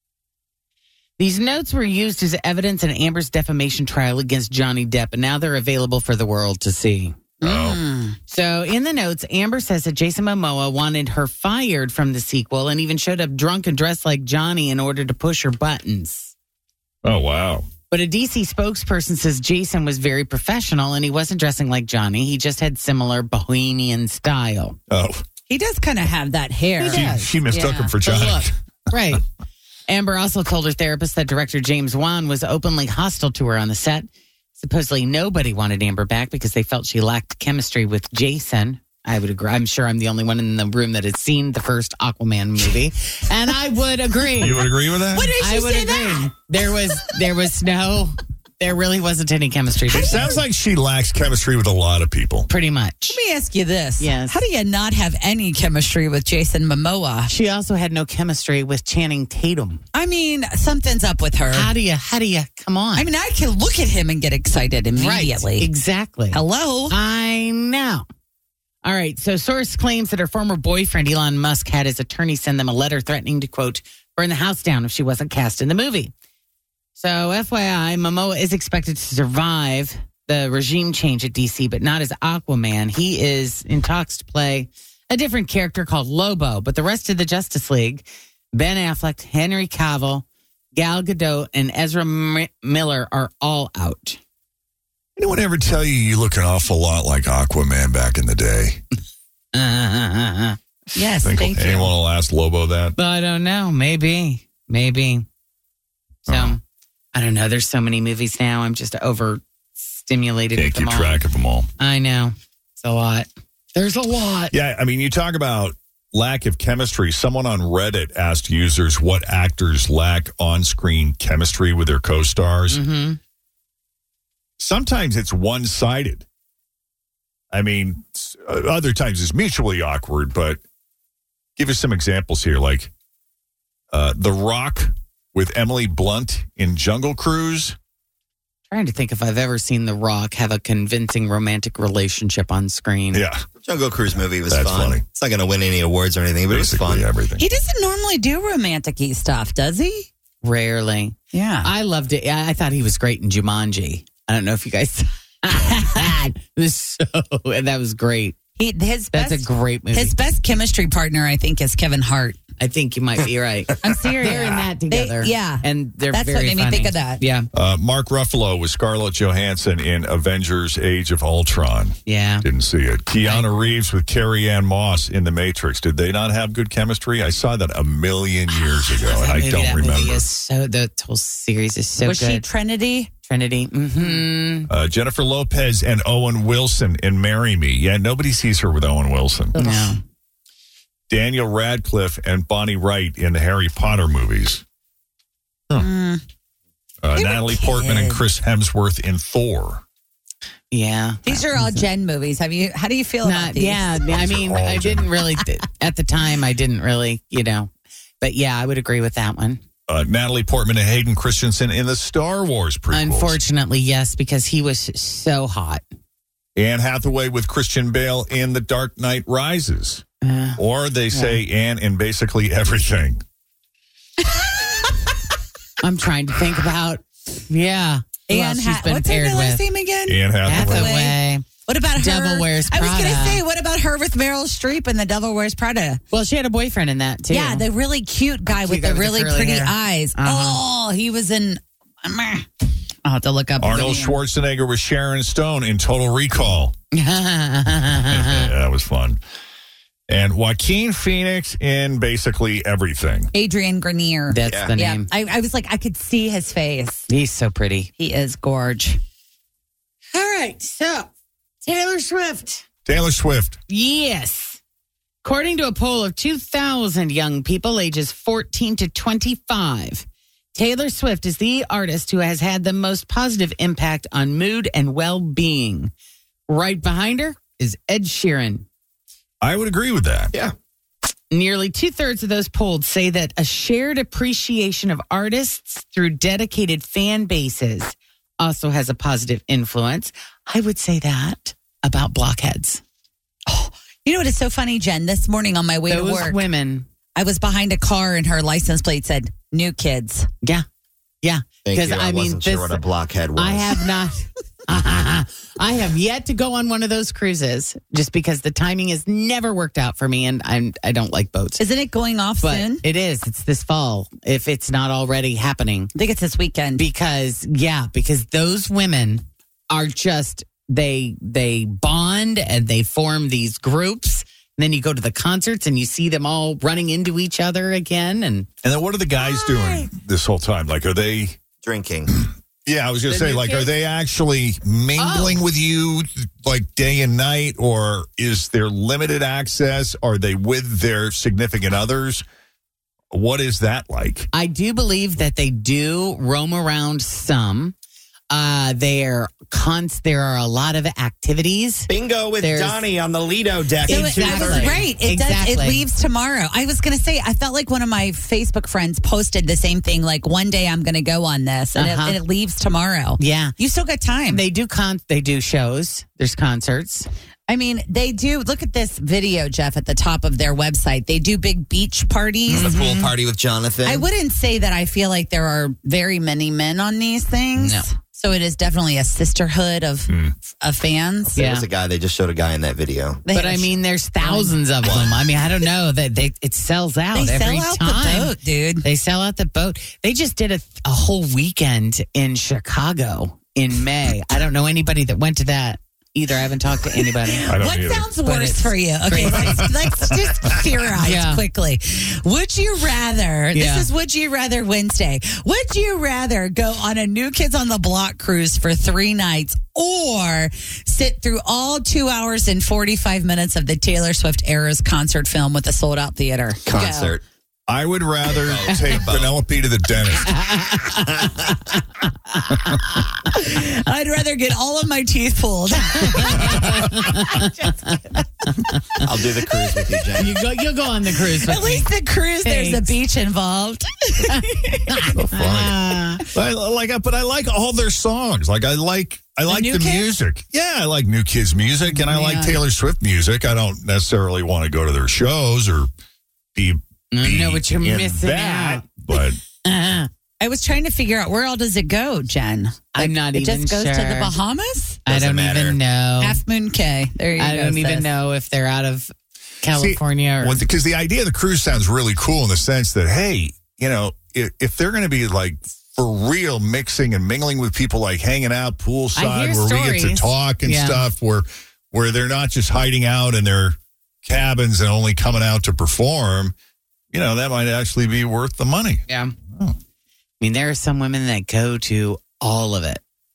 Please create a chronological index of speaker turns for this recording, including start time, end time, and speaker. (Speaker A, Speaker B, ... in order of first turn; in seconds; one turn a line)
Speaker A: 1.2-7.2
Speaker B: 7.4-8.2
Speaker C: 7.4-7.8
Speaker A: 8.3-16.3
Speaker C: 17.0-17.7
Speaker A: 17.9-24.8
Speaker C: 24.9-25.2
Speaker B: 25.5-27.9
Speaker A: 26.8-27.3
Speaker C: 26.9-28.6
Speaker A: 28.0-29.2
Speaker A: 29.9-44.7
Speaker C: 44.4-45.3
Speaker B: 45.1-46.3
Speaker A: 45.4-50.4
Speaker C: 49.9-52.5
Speaker A: 52.5-53.2
Speaker B: 53.1-57.3
Speaker A: 54.0-54.4
Speaker A: 57.3-59.8
Speaker B: 59.9-61.7
Speaker A: 61.5-63.1
Speaker B: 62.9-65.7
Speaker A: 65.0-68.0
Speaker B: 66.3-66.9
Speaker A: 68.8-76.1
Speaker A: 77.0-94.2
Speaker C: 95.2-98.8
Speaker A: 99.5-100.6
Speaker B: 100.9-101.9
Speaker C: 101.2-103.0
Speaker A: 103.0-105.3
Speaker A: 106.3-106.6
Speaker C: 106.3-106.6
Speaker A: 107.1-111.2
Speaker C: 110.6-111.7
Speaker A: 111.8-114.5
Speaker C: 114.5-122.8
Speaker A: 122.7-123.2
Speaker C: 124.6-126.3
Speaker C: 127.5-130.6
Speaker C: 131.6-132.9
Speaker C: 133.9-137.8
Speaker A: 138.7-143.2
Speaker C: 143.1-143.4
Speaker D: 143.6-147.1
Speaker C: 144.2-145.0
Speaker C: 146.5-147.4
Speaker B: 147.4-150.1
Speaker A: 150.4-158.4
Speaker B: 151.3-151.7
Speaker B: 158.6-162.4
Speaker A: 159.1-160.1
Speaker A: 162.6-167.5
Speaker B: 163.8-167.2
Speaker C: 167.5-180.3
Speaker A: 172.1-172.4
Speaker A: 173.2-173.5
Speaker A: 179.0-182.4
Speaker B: 182.0-183.1
Speaker A: 183.2-184.7
Speaker C: 184.7-189.6
Speaker A: 189.6-190.0
Speaker C: 191.1-194.6
Speaker B: 195.8-196.2
Speaker C: 197.0-199.8
Speaker B: 197.2-198.2
Speaker A: 200.7-201.9
Speaker B: 201.2-203.9
Speaker A: 203.2-209.6
Speaker C: 204.0-205.1
Speaker C: 209.9-213.4
Speaker A: 212.9-215.8
Speaker C: 216.6-220.0
Speaker A: 220.2-220.6
Speaker C: 220.6-223.2
Speaker A: 221.1-221.4
Speaker B: 224.4-225.1
Speaker A: 225.8-229.6
Speaker B: 228.3-236.0
Speaker C: 230.1-230.9
Speaker A: 230.4-233.4
Speaker A: 236.1-237.7
Speaker B: 237.3-242.5
Speaker A: 238.5-240.6
Speaker B: 243.0-244.2
Speaker C: 243.6-246.8
Speaker A: 246.9-248.5
Speaker C: 248.1-249.2
Speaker C: 250.1-253.3
Speaker B: 253.3-257.1
Speaker A: 254.3-255.1
Speaker D: 254.5-254.7
Speaker A: 257.1-257.9
Speaker B: 258.0-259.0
Speaker A: 260.1-261.1
Speaker A: 261.6-262.6
Speaker C: 262.9-263.6
Speaker A: 263.7-264.6
Speaker A: 265.2-275.9
Speaker A: 276.5-278.7
Speaker C: 279.4-280.3
Speaker A: 281.3-292.8
Speaker B: 293.5-296.4
Speaker A: 295.9-296.9
Speaker B: 297.1-300.3
Speaker A: 301.2-302.8
Speaker D: 301.6-303.9
Speaker A: 303.4-311.6
Speaker B: 311.6-312.8
Speaker A: 312.4-315.9
Speaker B: 315.9-316.9
Speaker A: 316.8-328.5
Speaker C: 328.6-331.4
Speaker A: 329.2-329.9
Speaker D: 331.6-332.1
Speaker C: 332.1-342.2
Speaker A: 333.1-333.7
Speaker A: 335.0-335.4
Speaker C: 343.1-344.3
Speaker A: 344.3-347.8
Speaker A: 348.3-352.8
Speaker D: 351.9-354.8
Speaker A: 353.8-355.8
Speaker B: 353.9-364.4
Speaker A: 361.8-362.2
Speaker A: 363.2-363.6
Speaker A: 364.3-367.1
Speaker B: 367.5-372.7
Speaker A: 372.5-373.1
Speaker D: 372.5-374.1
Speaker B: 373.8-381.4
Speaker A: 377.6-377.9
Speaker D: 381.4-383.2
Speaker A: 381.4-381.7
Speaker B: 383.2-384.6
Speaker A: 383.3-397.5
Speaker D: 384.8-385.3
Speaker B: 387.1-388.9
Speaker B: 397.3-417.2
Speaker C: 397.5-398.1
Speaker A: 398.2-399.6
Speaker A: 401.0-401.4
Speaker A: 403.5-403.9
Speaker D: 416.6-417.2
Speaker C: 417.7-420.3
Speaker D: 418.3-419.4
Speaker A: 420.2-421.1
Speaker D: 421.1-421.4
Speaker B: 423.2-428.7
Speaker A: 426.0-427.2
Speaker D: 429.0-430.4
Speaker A: 430.1-431.9
Speaker B: 431.4-435.1
Speaker A: 432.4-432.9
Speaker A: 434.9-436.2
Speaker C: 435.2-435.8
Speaker C: 436.3-445.9
Speaker B: 439.5-440.1
Speaker B: 441.9-442.6
Speaker C: 446.6-449.4
Speaker A: 447.1-450.1
Speaker B: 450.4-455.0
Speaker A: 452.9-454.3
Speaker D: 455.1-455.8
Speaker A: 455.1-456.4
Speaker B: 456.2-458.1
Speaker A: 457.4-460.6
Speaker C: 459.7-476.5
Speaker A: 469.1-471.1
Speaker C: 477.1-479.8
Speaker A: 479.1-479.4
Speaker A: 480.4-483.0